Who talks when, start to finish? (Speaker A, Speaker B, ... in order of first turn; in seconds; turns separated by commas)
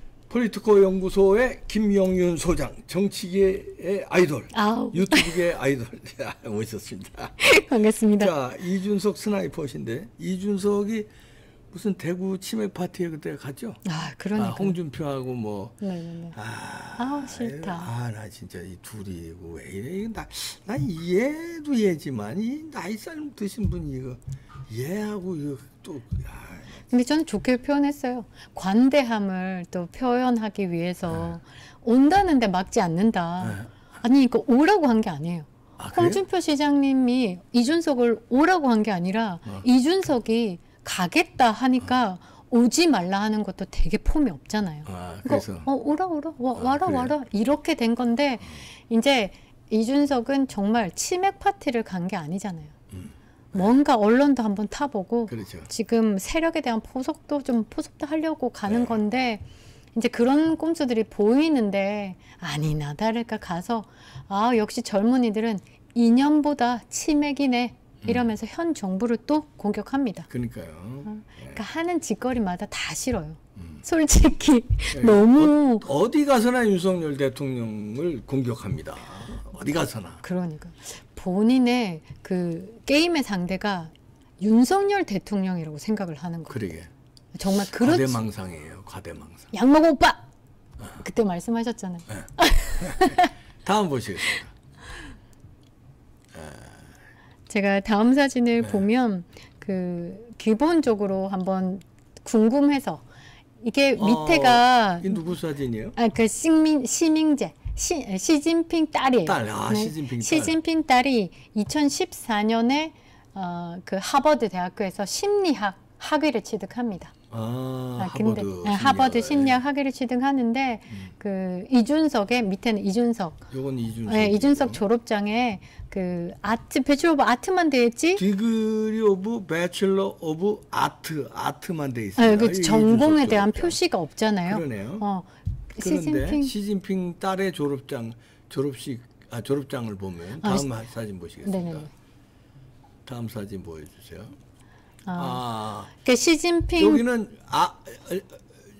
Speaker A: 0.3-7.6, Speaker B: 4.5-5.5, Speaker B: 7.4-8.3, Speaker A: 8.2-11.1, Speaker A: 11.7-13.8, Speaker B: 13.8-14.8, Speaker A: 14.3-15.8, Speaker B: 15.8-16.4, Speaker A: 16.3-26.8, Speaker B: 17.0-17.9, Speaker B: 26.9-52.7, Speaker A: 31.1-31.3, Speaker A: 33.4-33.7, Speaker A: 35.8-36.2, Speaker A: 44.9-45.7, Speaker A: 46.5-47.1, Speaker A: 52.9-53.7, Speaker B: 53.5-59.4, Speaker A: 55.3-55.7, Speaker A: 58.7-59.0, Speaker B: 59.9-70.3, Speaker A: 70.3-71.6, Speaker B: 71.1-75.9, Speaker A: 74.9-80.2, Speaker B: 80.2-86.7, Speaker A: 86.5-86.9, Speaker B: 87.3-88.2, Speaker A: 87.5-89.5, Speaker B: 89.5-90.2, Speaker B: 91.0-93.3, Speaker A: 92.8-94.5, Speaker A: 96.3-96.9, Speaker B: 97.5-103.0, Speaker A: 98.6-98.9, Speaker B: 103.6-105.3, Speaker A: 104.0-106.0, Speaker B: 106.0-117.1, Speaker A: 109.2-110.6, Speaker A: 117.3-119.6, Speaker B: 118.0-123.4, Speaker A: 123.5-124.8, Speaker B: 124.1-128.2, Speaker A: 128.2-133.8, Speaker B: 132.2-136.5, Speaker A: 134.4-135.1, Speaker A: 135.8-141.9, Speaker B: 140.4-140.7, Speaker B: 141.4-141.9, Speaker A: 143.1-144.3, Speaker B: 145.1-145.4, Speaker A: 145.1-145.9, Speaker B: 146.0-147.0, Speaker A: 146.8-148.4